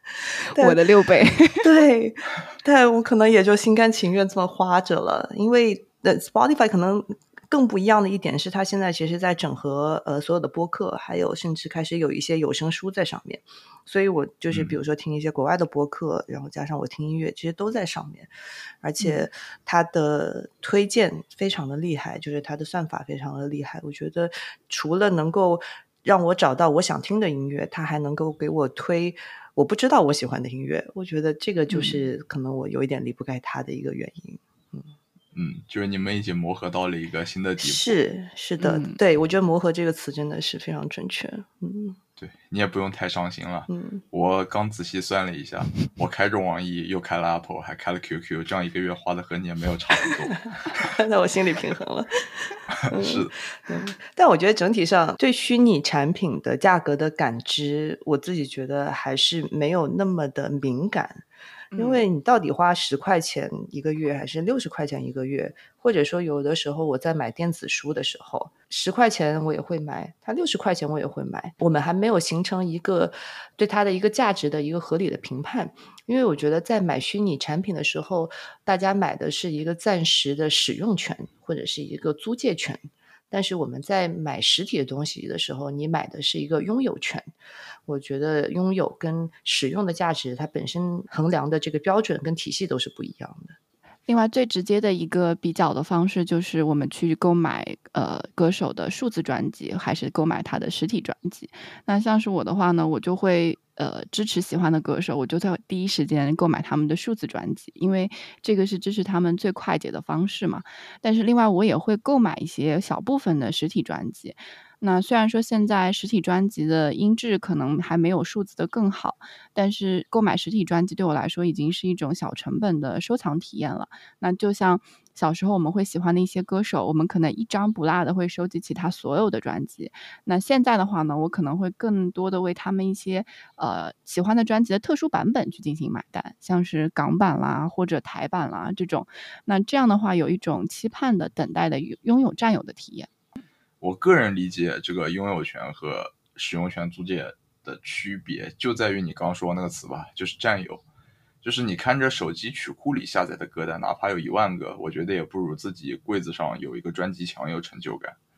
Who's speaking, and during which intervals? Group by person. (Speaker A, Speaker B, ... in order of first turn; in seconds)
Speaker A: 0.4-0.8, 1.6-18.3, 18.8-34.9, 37.6-42.0, 43.7-44.0, 50.8-61.2, 61.8-87.3, 87.9-93.6
Speaker B: 0.5-1.7, 19.0-19.2, 31.7-32.1, 38.6-39.0, 61.7-62.1, 94.1-143.1
Speaker C: 14.5-14.8, 35.3-38.0, 42.2-50.9, 52.9-53.3, 143.8-150.8, 151.4-158.2